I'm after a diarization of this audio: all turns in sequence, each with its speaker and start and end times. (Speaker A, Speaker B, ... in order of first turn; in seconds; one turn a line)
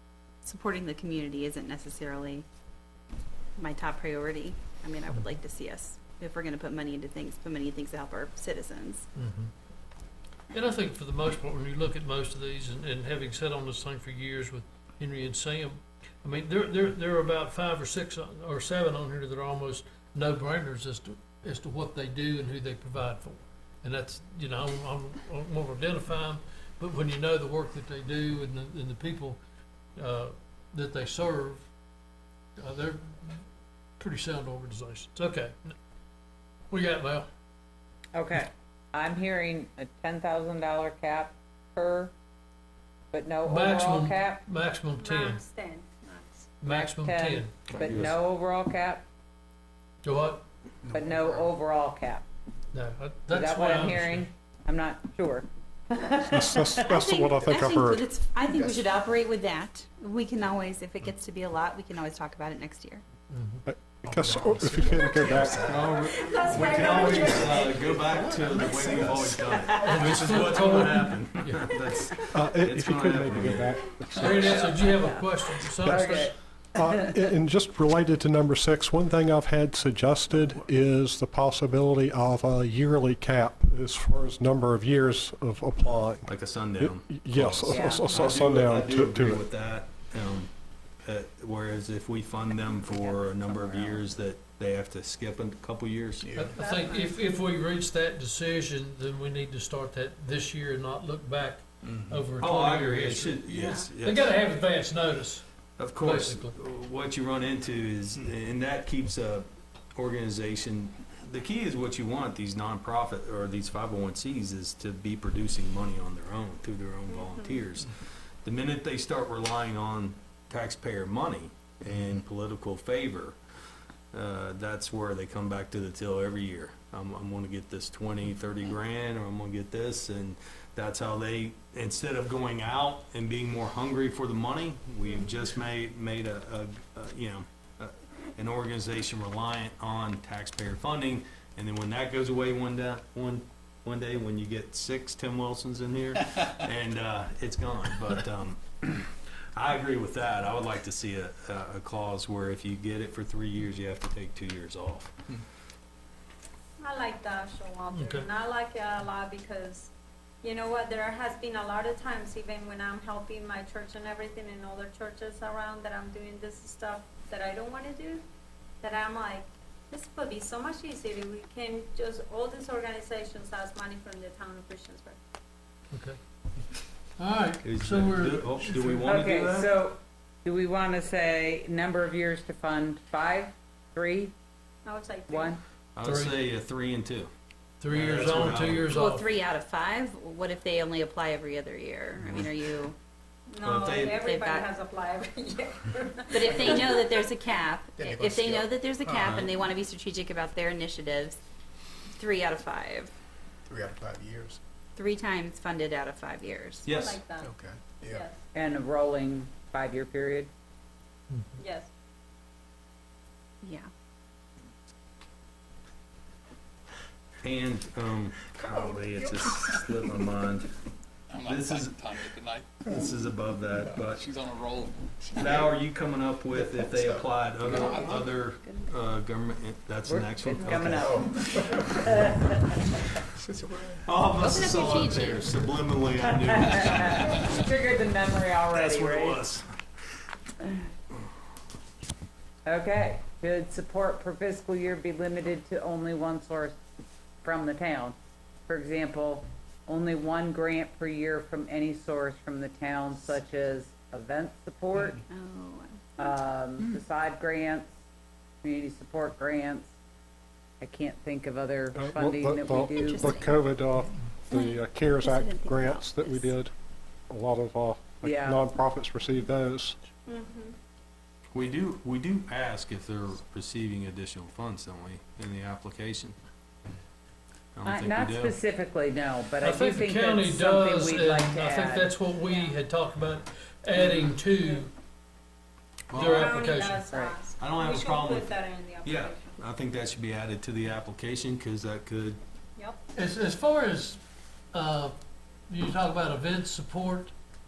Speaker A: 0.4-2.5
Speaker A: 3.6-9.1
Speaker B: 5.1-5.4
Speaker B: 9.2-9.5
Speaker B: 10.5-29.4
Speaker B: 30.0-31.7
Speaker B: 32.6-33.4
Speaker B: 34.0-35.8
Speaker B: 36.7-37.3
Speaker C: 38.1-42.1
Speaker C: 43.1-44.4
Speaker B: 43.5-45.4
Speaker D: 45.0-46.5
Speaker B: 46.6-47.5
Speaker C: 46.7-49.0
Speaker E: 47.7-48.1
Speaker B: 50.0-50.4
Speaker C: 50.9-52.2
Speaker B: 52.7-54.3
Speaker C: 53.3-56.9
Speaker F: 56.3-58.1
Speaker A: 56.9-63.0
Speaker G: 58.4-59.0
Speaker B: 63.3-63.6
Speaker F: 63.7-65.8
Speaker G: 64.1-70.8
Speaker E: 65.3-74.7
Speaker D: 66.1-67.7
Speaker B: 69.9-71.8
Speaker F: 72.3-74.7
Speaker B: 74.2-76.3
Speaker C: 75.8-76.3
Speaker F: 75.8-89.5
Speaker C: 76.9-77.2
Speaker E: 86.3-90.5
Speaker C: 87.7-88.2
Speaker E: 91.0-96.4
Speaker G: 96.2-96.6
Speaker B: 96.3-105.5
Speaker D: 96.5-97.2
Speaker E: 102.4-104.3
Speaker E: 105.8-123.4
Speaker B: 106.0-106.5
Speaker D: 117.1-117.6
Speaker E: 124.1-155.2
Speaker D: 156.8-159.9
Speaker B: 157.9-158.3
Speaker D: 160.4-168.2
Speaker D: 168.8-175.2
Speaker B: 175.9-176.2
Speaker B: 177.2-179.1
Speaker E: 177.6-179.7
Speaker C: 179.1-184.3
Speaker D: 184.8-185.6
Speaker C: 185.3-185.6
Speaker E: 185.9-187.3
Speaker B: 186.0-186.4
Speaker B: 187.8-189.3
Speaker E: 187.9-188.9
Speaker A: 188.8-193.0
Speaker E: 192.2-192.5
Speaker D: 193.5-197.1
Speaker E: 193.6-194.2
Speaker A: 194.2-194.7
Speaker A: 196.3-201.4
Speaker G: 196.6-197.2
Speaker G: 198.0-199.4
Speaker E: 199.1-199.6
Speaker A: 202.2-203.1
Speaker G: 203.7-204.6
Speaker A: 205.0-206.9
Speaker E: 206.8-207.2
Speaker D: 206.9-207.5
Speaker G: 207.4-208.2
Speaker D: 208.1-208.3
Speaker C: 208.6-210.5
Speaker D: 211.6-211.9
Speaker A: 213.6-213.9
Speaker E: 217.4-220.7
Speaker G: 218.6-219.7
Speaker H: 221.3-222.8
Speaker E: 221.4-222.3
Speaker G: 222.8-223.1
Speaker E: 222.9-224.3
Speaker G: 223.8-224.2
Speaker H: 224.2-225.0
Speaker G: 225.2-225.8
Speaker E: 225.4-231.3
Speaker G: 226.5-228.3
Speaker H: 227.7-228.0
Speaker C: 230.1-232.6
Speaker G: 230.9-232.1
Speaker G: 233.4-234.6
Speaker E: 234.1-237.3
Speaker A: 234.5-235.5
Speaker C: 236.2-239.4
Speaker E: 238.7-239.7
Speaker C: 242.7-246.8
Speaker C: 247.4-248.2
Speaker C: 248.7-255.2
Speaker A: 255.3-256.3
Speaker C: 256.2-258.0
Speaker C: 258.6-259.9
Speaker C: 260.8-263.5
Speaker F: 261.9-266.7
Speaker A: 262.8-263.5
Speaker A: 264.5-266.5
Speaker F: 267.3-270.0
Speaker C: 268.2-268.6
Speaker D: 270.3-270.8
Speaker E: 271.5-276.4
Speaker E: 277.8-278.6
Speaker C: 277.9-282.1
Speaker B: 279.6-284.9
Speaker D: 282.4-282.8
Speaker D: 284.1-284.8
Speaker E: 286.1-286.6
Speaker B: 286.1-287.0
Speaker D: 286.3-289.6
Speaker C: 287.1-287.4
Speaker E: 287.6-292.4
Speaker B: 293.1-294.2
Speaker B: 294.7-295.1
Speaker B: 295.7-297.3